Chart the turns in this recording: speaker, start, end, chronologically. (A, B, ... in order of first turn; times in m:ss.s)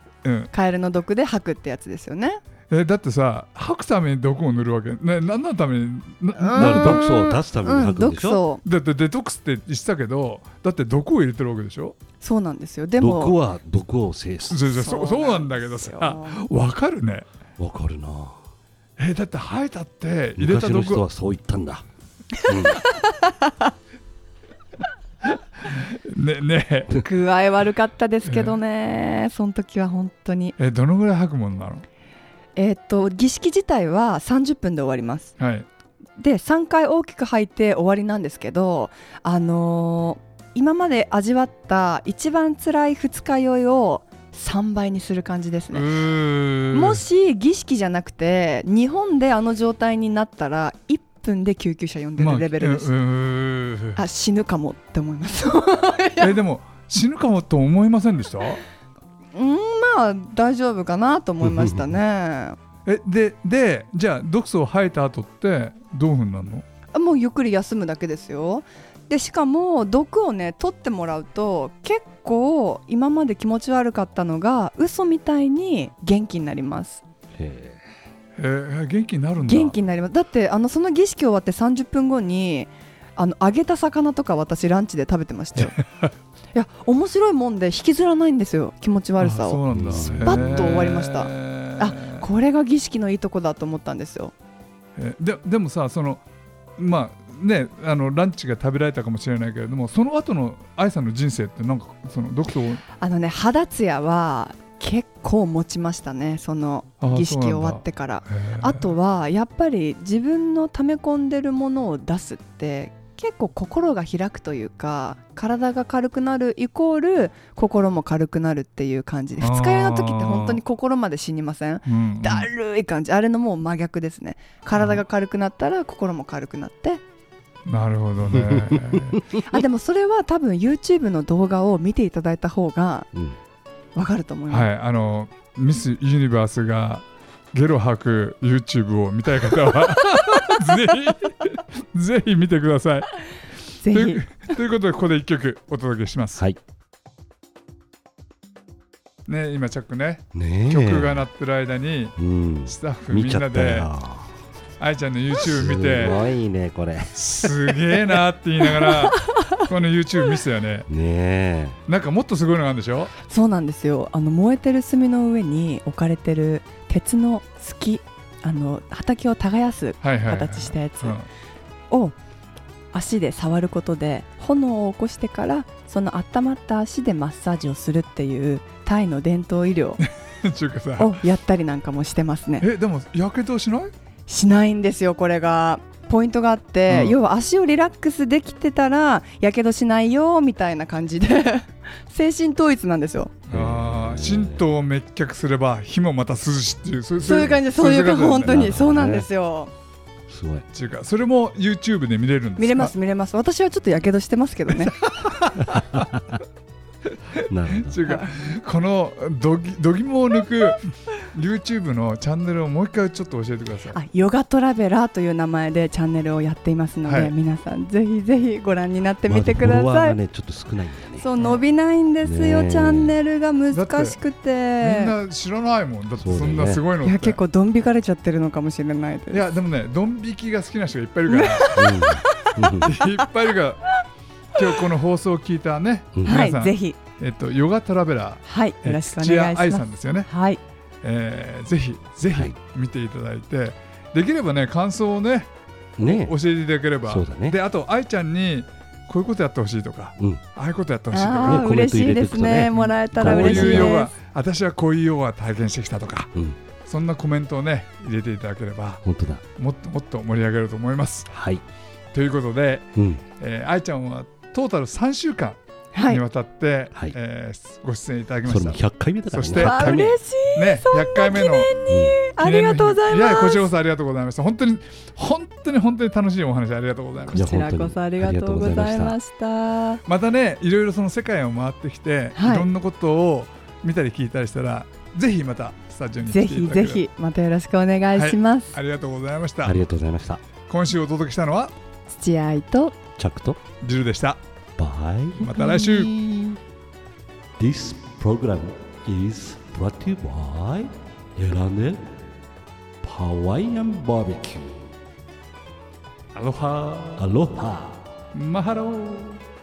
0:00.2-0:00.5 A
0:00.5-0:02.4 B
0:02.7-0:07.1 A
0:06.4-0:08.6 B
0:06.6-0:08.4 C
0:08.6-0:12.0 A
0:12.2-0:13.4 B
0:13.0-0:14.6 C
0:14.5-0:17.2 A
0:14.6-0:16.4 B
0:17.6-0:18.4 C
0:19.0-0:21.0 A
0:20.4-0:21.8 C
0:22.4-0:22.9 C
0:22.9-0:23.7 B
0:25.6-0:27.0 A
0:26.9-0:30.6 B
0:28.2-0:28.6 A
0:30.6-0:31.8 A
0:32.6-0:35.3 B
0:35.4-0:35.7 A
0:36.2-0:46.0 B
0:45.7-0:47.0 A
0:46.7-0:52.9 B
0:52.2-0:54.0 A
0:54.0-0:56.4 B
0:56.2-0:58.6 A
0:59.3-1:02.6 B
1:01.4-1:01.9 C
1:02.8-1:06.6 A
1:06.9-1:17.0 B
1:17.3-1:17.8 C
1:18.4-1:19.8 A
1:19.4-1:25.8 B
1:25.6-1:26.1 A
1:26.5-1:34.3 B
1:29.2-1:32.2 A
1:29.7-1:30.9 C
1:35.0-1:36.2 A
1:36.8-1:42.8 A
1:43.0-2:07.0 B
1:47.0-1:48.9 A
1:59.4-2:00.6 A
2:01.8-2:02.5 A
2:04.8-2:05.0 A
2:07.6-2:09.2 A
2:08.4-2:09.2 C
2:09.3-2:13.1 B
2:13.9-2:14.7 B
2:14.5-2:23.1 A
2:23.8-2:24.3 B
2:23.9-2:26.4 A
2:29.2-2:33.9 A
2:30.3-2:31.2 C
2:32.2-2:34.3 C
2:34.8-2:36.2 A
2:35.4-2:37.8 C
2:37.1-2:40.9 A
2:38.8-2:39.6 B
2:40.9-2:41.8 C
2:41.9-2:43.1 A
2:43.2-2:51.2 B
2:50.0-2:51.3 A
2:52.9-3:00.0 B
3:00.0-3:01.2 A
3:01.0-3:02.7 B
3:02.6-3:03.9 A
3:04.3-3:13.4 B
3:06.9-3:07.2 A
3:13.5-3:14.6 C
3:13.5-3:18.7 A
3:17.2-3:19.7 B
3:18.4-3:19.3 C
3:20.3-3:20.6 C
3:20.7-3:22.9 A
3:22.6-3:25.0 B
3:24.7-3:26.1 A
3:25.6-3:26.3 C
3:27.0-3:34.0 A
3:27.5-3:28.0 C
3:28.0-3:28.3 B
3:33.9-3:40.2 B
3:37.0-3:37.3 A
3:39.3-3:41.3 C
3:41.2-3:45.1 B
3:42.2-3:43.1 C
3:43.7-3:44.2 A
3:44.8-3:47.4 A
3:46.2-3:46.8 C
3:47.0-3:49.5 B
3:49.3-3:52.0 A
3:51.3-3:53.2 B
3:51.7-3:52.9 C
3:52.8-3:53.9 A
3:54.5-4:00.3 A
3:56.2-3:57.0 B
3:58.4-4:00.6 B
4:01.0-4:05.5 A
4:06.0-4:06.3 C
4:06.0-4:11.8 A
4:07.1-4:07.6 C
4:11.1-4:14.1 B
4:11.4-4:14.0 C
4:12.8-4:16.3 A
4:16.8-4:19.0 A
4:19.0-4:19.4 C
4:19.6-4:21.3 A
4:21.3-4:21.6 C
4:22.1-4:31.8 A
4:23.0-4:23.2 C
4:25.9-4:26.2 B
4:28.4-4:30.2 C
4:29.5-4:33.7 B
4:31.9-4:32.2 C
4:32.3-4:37.4 A
4:37.3-4:40.0 B
4:37.3-4:39.2 C
4:40.0-4:47.0 A
4:42.3-4:42.7 B
4:46.3-4:48.8 B
4:48.1-4:49.8 A
4:49.6-4:50.4 C
4:50.7-4:51.7 A
4:52.1-4:53.0 B
4:53.2-4:53.6 C
4:53.8-4:54.4 A
4:54.8-4:55.5 C
4:55.4-4:56.1 A
4:55.5-4:56.6 B
4:57.6-5:02.2 C
5:03.0-5:04.9 C
5:06.3-5:07.3 A
5:07.2-5:08.0 C
5:08.3-5:09.4 A